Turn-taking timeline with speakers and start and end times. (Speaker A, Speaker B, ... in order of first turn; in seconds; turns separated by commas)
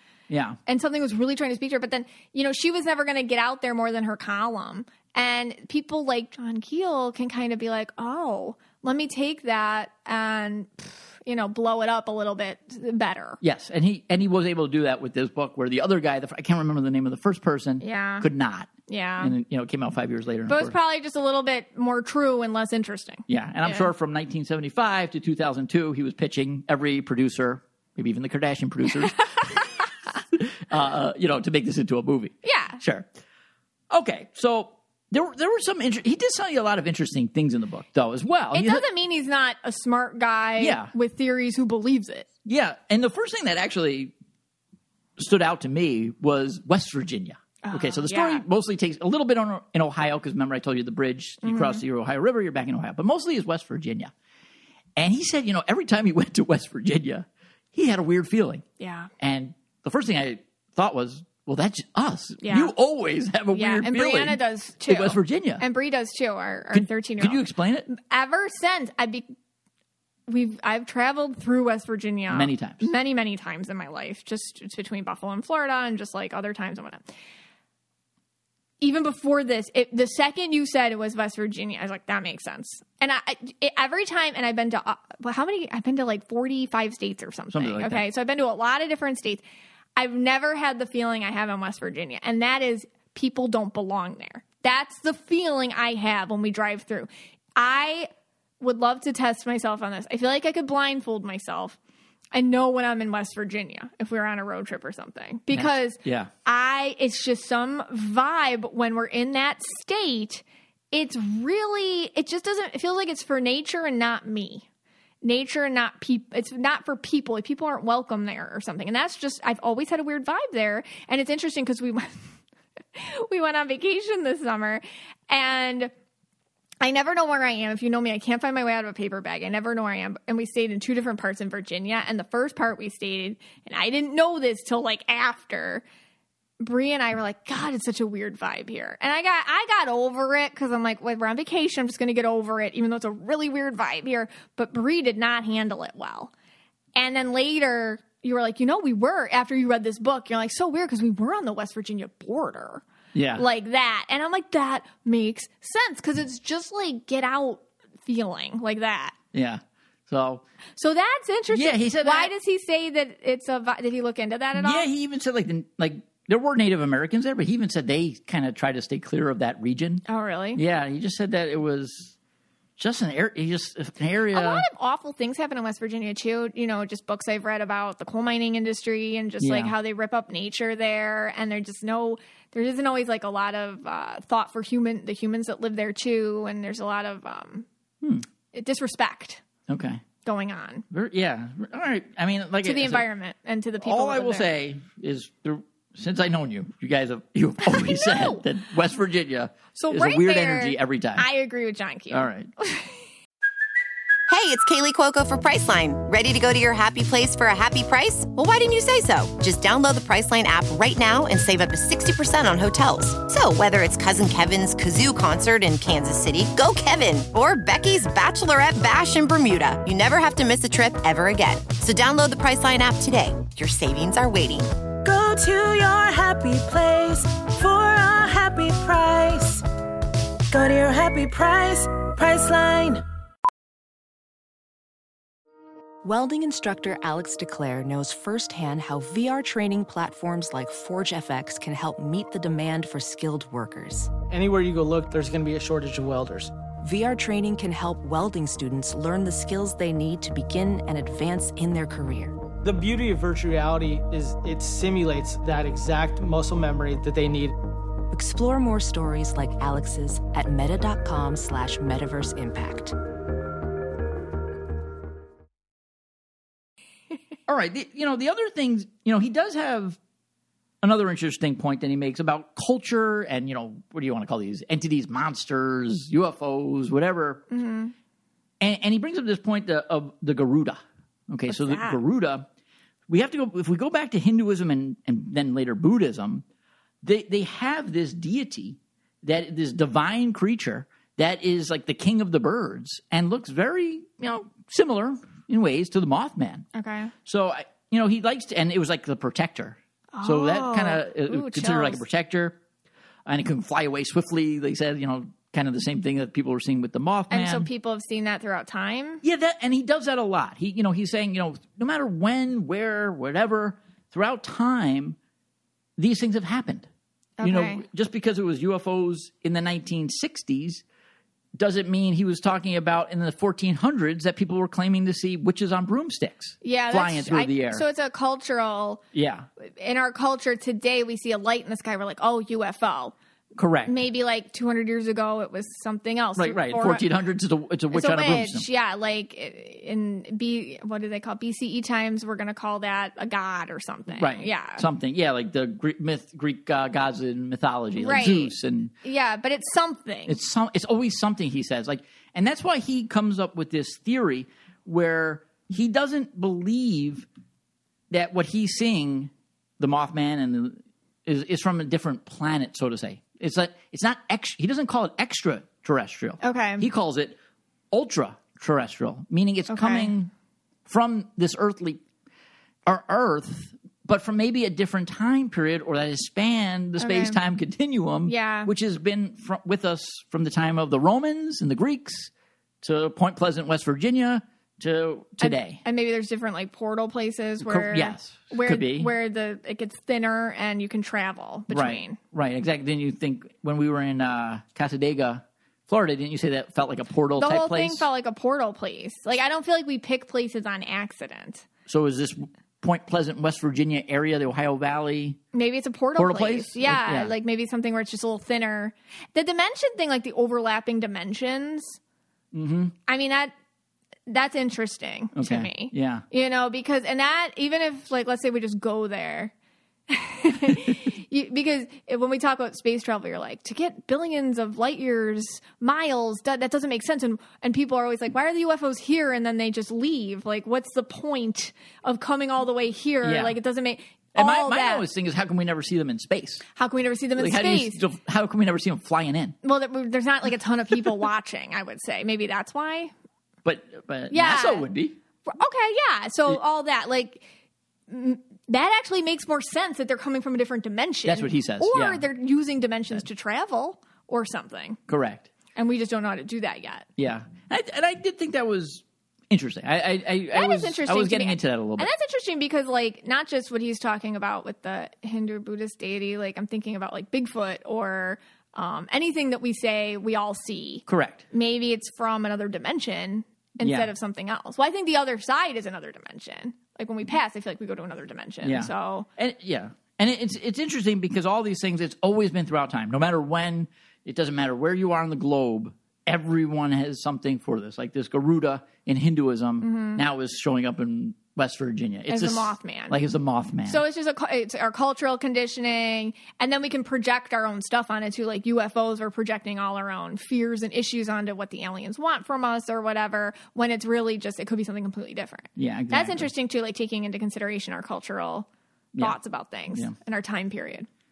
Speaker A: 0.3-0.6, Speaker B: 0.7-13.4, Speaker A: 13.4-20.7, Speaker B: 17.8-18.3, Speaker B: 18.9-19.3, Speaker B: 20.5-23.9, Speaker A: 23.3-29.7, Speaker A: 30.3-33.1, Speaker B: 32.4-32.8, Speaker A: 33.9-38.8, Speaker B: 38.5-42.3, Speaker A: 40.6-40.9, Speaker A: 42.4-44.1, Speaker A: 45.2-54.1, Speaker B: 47.6-48.4, Speaker B: 51.4-51.8, Speaker A: 55.0-58.6, Speaker B: 58.8-59.1, Speaker A: 59.2-65.6, Speaker B: 62.4-62.7, Speaker B: 63.5-69.3, Speaker A: 66.7-67.9, Speaker B: 70.3-77.0, Speaker A: 72.3-72.9, Speaker B: 78.8-89.4, Speaker A: 87.5-88.0, Speaker B: 90.0-98.1, Speaker B: 98.6-101.8, Speaker B: 102.3-114.7, Speaker A: 105.5-106.3, Speaker B: 115.2-122.2, Speaker B: 122.9-125.9, Speaker B: 126.8-135.8, Speaker B: 136.6-146.3, Speaker B: 146.9-152.8, Speaker A: 153.1-153.4, Speaker B: 153.3-159.2, Speaker A: 159.3-160.4, Speaker B: 160.8-164.9, Speaker A: 161.5-162.3, Speaker A: 164.6-170.0, Speaker B: 170.1-170.6, Speaker A: 170.5-172.2, Speaker A: 172.8-174.7, Speaker B: 174.3-187.7, Speaker A: 179.4-179.7, Speaker B: 188.5-189.4, Speaker A: 189.7-190.0, Speaker B: 190.2-190.8, Speaker A: 190.9-193.1, Speaker B: 192.6-194.5, Speaker A: 193.8-201.3, Speaker B: 197.7-198.4, Speaker B: 199.7-202.9, Speaker A: 202.1-202.5, Speaker C: 204.3-224.7, Speaker D: 225.0-229.6, Speaker D: 230.5-233.0, Speaker E: 236.0-244.1, Speaker F: 244.3-246.5, Speaker E: 246.8-252.3, Speaker F: 252.6-257.5, Speaker E: 258.1-262.9, Speaker A: 267.5-270.0, Speaker A: 270.8-277.4, Speaker B: 277.5-277.9, Speaker A: 278.6-282.5, Speaker B: 281.5-282.0, Speaker A: 283.1-286.4, Speaker A: 287.0-296.6, Speaker B: 296.7-297.1, Speaker A: 297.2-302.6, Speaker B: 300.1-302.0, Speaker A: 303.2-307.7, Speaker B: 307.3-309.2, Speaker A: 309.2-315.2, Speaker A: 316.0-316.9, Speaker B: 317.4-317.8, Speaker A: 317.4-320.8, Speaker A: 321.6-327.8, Speaker B: 326.6-329.0, Speaker A: 329.1-329.5, Speaker B: 329.6-333.1, Speaker A: 333.6-334.0, Speaker B: 333.9-337.0, Speaker A: 336.4-338.6, Speaker B: 337.9-344.9, Speaker A: 344.1-348.9, Speaker B: 347.9-350.4, Speaker A: 350.3-357.3, Speaker A: 358.1-367.4, Speaker B: 366.4-366.9, Speaker A: 367.9-370.3, Speaker B: 369.7-370.1, Speaker A: 370.9-372.0, Speaker A: 372.9-382.3, Speaker B: 377.0-377.4, Speaker B: 378.2-378.7, Speaker A: 382.8-385.8, Speaker B: 385.4-392.2, Speaker A: 387.6-389.1, Speaker A: 391.7-398.1, Speaker B: 397.4-401.6, Speaker A: 401.9-405.4, Speaker B: 405.5-412.0, Speaker A: 406.2-407.3, Speaker A: 412.5-412.9, Speaker B: 413.1-413.5, Speaker B: 414.3-419.5, Speaker A: 415.4-416.2, Speaker B: 420.1-435.1, Speaker A: 433.2-433.6, Speaker A: 434.3-436.6, Speaker B: 436.7-438.0, Speaker A: 437.4-439.6, Speaker B: 439.6-443.1, Speaker A: 443.6-445.1, Speaker B: 444.3-444.9, Speaker B: 445.5-447.4, Speaker B: 448.1-455.0, Speaker A: 451.2-452.2, Speaker A: 455.1-455.5, Speaker B: 455.7-457.1, Speaker A: 457.2-462.1, Speaker B: 460.5-479.3, Speaker A: 471.1-471.4, Speaker A: 473.8-474.1, Speaker A: 478.6-494.0, Speaker B: 489.8-490.2, Speaker B: 492.3-493.2, Speaker B: 493.9-511.1, Speaker A: 505.8-506.5